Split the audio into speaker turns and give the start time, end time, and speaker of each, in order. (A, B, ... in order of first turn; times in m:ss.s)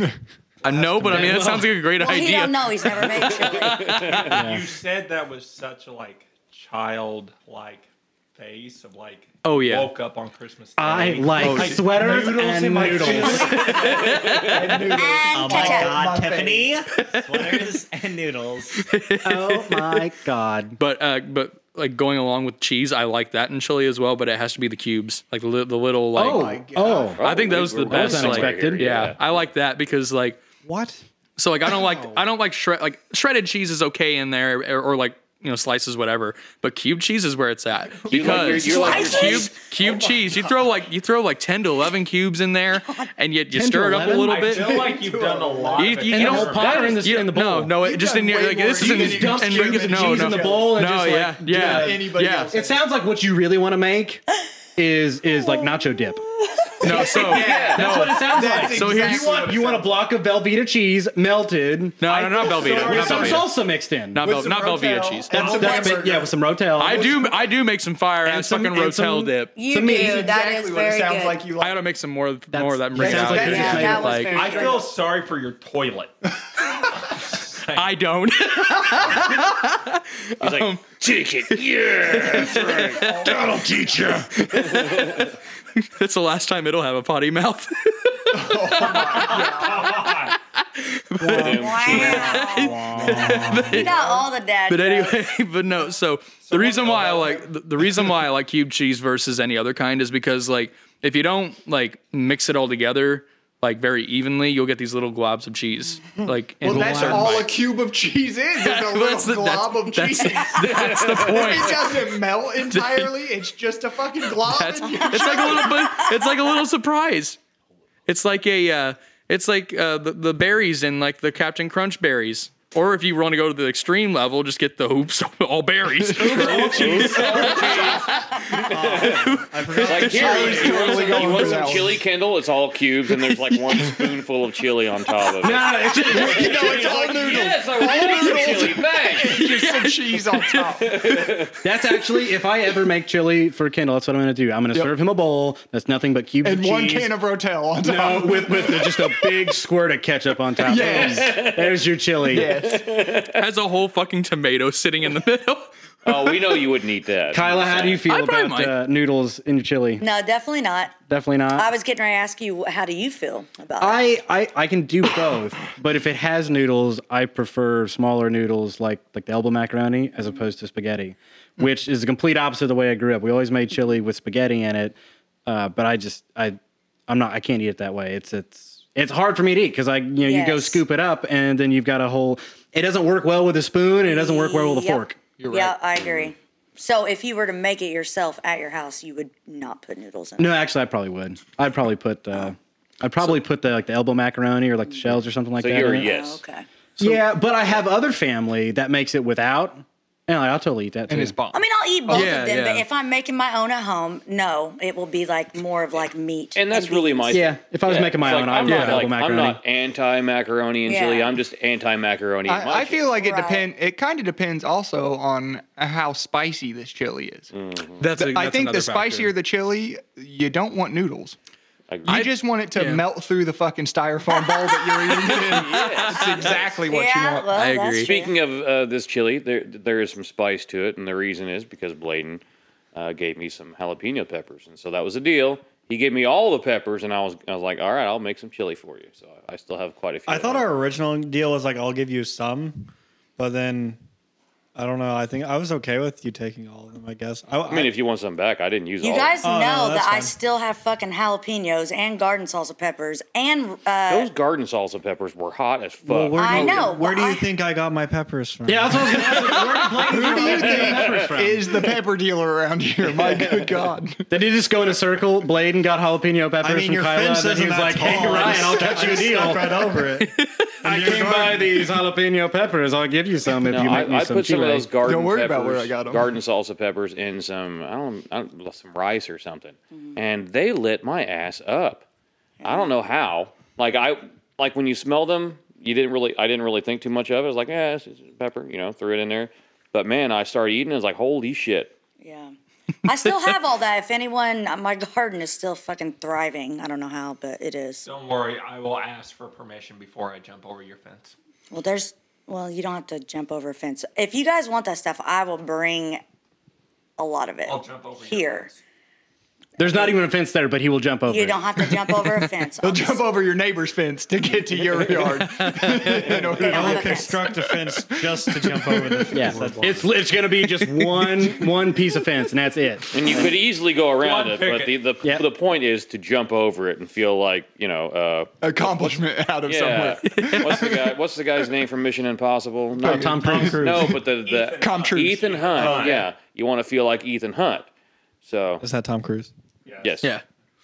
0:00.6-0:04.3 A
0:00.7-0:01.7 B
0:02.0-0:04.0 C
0:03.6-0:04.4 D
0:04.0-0:14.2 E
0:04.3-0:04.6 B
0:09.4-0:09.9 A
0:10.8-0:13.7 B
0:11.4-0:12.2 F
0:12.7-0:14.0 F
0:13.3-0:14.6 A
0:13.5-0:16.8 G
0:13.8-0:14.7 D
0:14.8-0:15.2 E
0:14.9-0:16.0 C
0:15.3-0:18.8 F
0:17.0-0:17.7 A
0:18.7-0:20.0 A
0:19.2-0:20.8 B
0:20.8-0:26.6 A
0:26.1-0:27.2 B
0:26.2-0:27.2 G
0:27.2-0:29.2 D
0:27.2-0:30.4 A
0:27.9-0:29.0 B
0:30.6-0:31.0 F
0:31.4-0:45.0 A
0:37.9-0:40.6 G
0:38.1-0:39.6 D
0:38.4-0:39.5 C
0:43.5-0:45.0 B
0:43.9-0:46.9 E
0:44.5-0:46.1 G
0:45.8-0:52.5 A
0:46.1-0:47.8 B
0:46.4-0:47.2 D
0:47.7-0:52.8 G
0:48.8-0:54.2 B
0:54.8-0:56.2 B
0:56.8-0:59.3 A
0:56.8-1:04.4 B
0:57.1-0:58.1 D
0:57.6-1:00.0 G
1:02.0-1:03.5 A
1:02.1-1:03.4 G
1:02.7-1:03.4 F
1:04.1-1:05.8 A
1:04.2-1:06.3 G
1:05.3-1:07.3 B
1:06.8-1:09.5 A
1:06.8-1:07.4 G
1:08.2-1:10.2 B
1:09.5-1:11.5 C
1:09.8-1:11.8 G
1:11.6-1:14.5 A
1:12.5-1:14.1 B
1:12.9-1:14.9 G
1:13.4-1:14.9 C
1:14.2-1:16.2 E
1:17.1-1:18.0 E
1:17.7-1:20.8 A
1:20.4-1:23.2 D
1:22.0-1:34.1 A
1:22.5-1:23.9 G
1:23.2-1:24.3 B
1:24.5-1:25.3 D
1:28.3-1:30.2 G
1:28.8-1:30.0 E
1:31.3-1:32.3 D
1:31.3-1:33.6 F
1:31.4-1:35.2 C
1:32.6-1:34.0 G
1:34.7-1:47.6 A
1:36.6-1:37.3 E
1:36.6-1:37.4 G
1:46.2-1:47.4 F
1:46.6-1:55.7 G
1:48.6-1:52.0 A
1:50.6-1:51.7 D
1:52.7-1:53.2 A
1:54.3-1:57.4 A
1:55.1-1:56.1 C
1:58.0-2:11.8 A
2:05.9-2:06.7 G
2:06.1-2:07.7 B
2:06.4-2:19.5 D
2:07.1-2:08.0 F
2:08.7-2:12.0 F
2:10.0-2:11.9 G
2:15.4-2:17.0 B
2:16.0-2:20.9 G
2:19.3-2:21.5 A
2:20.8-2:21.5 D
2:21.6-2:27.1 B
2:26.4-2:29.1 G
2:27.8-2:32.5 B
2:30.6-2:31.5 G
2:30.6-2:33.4 D
2:32.2-2:32.9 G
2:33.3-2:36.1 A
2:36.0-2:38.0 D
2:37.3-2:40.0 B
2:38.0-2:38.7 A
2:40.0-2:40.9 C
2:41.1-2:41.7 B
2:41.5-2:44.0 C
2:43.8-3:05.2 B
3:00.2-3:00.8 C
3:04.0-3:10.6 C
3:05.4-3:05.8 G
3:06.0-3:06.3 D
3:10.4-3:16.1 B
3:15.6-3:16.4 D
3:16.0-3:16.6 C
3:17.0-3:21.3 B
3:21.1-3:22.4 G
3:21.5-3:27.4 C
3:22.1-3:22.8 A
3:26.6-3:33.0 D
3:27.3-3:29.6 B
3:28.6-3:29.0 A
3:30.8-3:31.4 C
3:32.5-3:37.5 G
3:33.2-3:33.7 C
3:37.5-3:38.0 D
3:38.0-3:39.3 A
3:38.0-3:41.4 G
3:41.9-3:42.3 D
3:42.1-3:43.0 A
3:42.1-3:47.5 G
3:44.6-3:44.9 C
3:45.4-3:46.8 D
3:45.8-3:46.2 A
3:46.9-3:48.3 C
3:47.5-3:48.1 A
3:48.0-3:52.4 D
3:52.9-4:00.7 D
4:00.3-4:04.0 F
4:04.8-4:07.9 F
4:07.6-4:09.4 D
4:09.0-4:14.3 C
4:09.4-4:10.3 F
4:14.1-4:16.9 D
4:16.0-4:21.2 F
4:16.4-4:17.4 C
4:18.6-4:21.8 B
4:20.0-4:24.2 G
4:23.4-4:23.7 B
4:24.3-4:30.1 B
4:26.6-4:32.0 F
4:30.3-4:30.8 A
4:30.8-4:35.0 B
4:33.7-4:42.0 D
4:35.0-4:36.3 G
4:42.6-4:42.9 C
4:42.6-4:51.9 D
4:52.2-4:52.5 C
4:53.0-4:58.0 C
4:58.0-5:01.3 E
5:01.7-5:06.2 C
5:07.2-5:08.7 C
5:07.6-5:08.7 E
5:09.8-5:11.8 B
5:11.3-5:13.2 C
5:12.8-5:19.5 G
5:15.5-5:16.1 A
5:16.3-5:20.1 F
5:16.6-5:17.4 C
5:19.3-5:23.5 B
5:23.1-5:37.9 D
5:24.2-5:25.1 E
5:28.6-5:31.0 G
5:30.2-5:30.9 A
5:33.0-5:34.1 B
5:33.0-5:34.3 F
5:33.0-5:33.8 G
5:34.3-5:36.3 E
5:34.8-5:36.0 G
5:38.4-5:38.8 D
5:38.8-5:39.5 F
5:39.8-5:40.2 E
5:40.0-5:40.3 D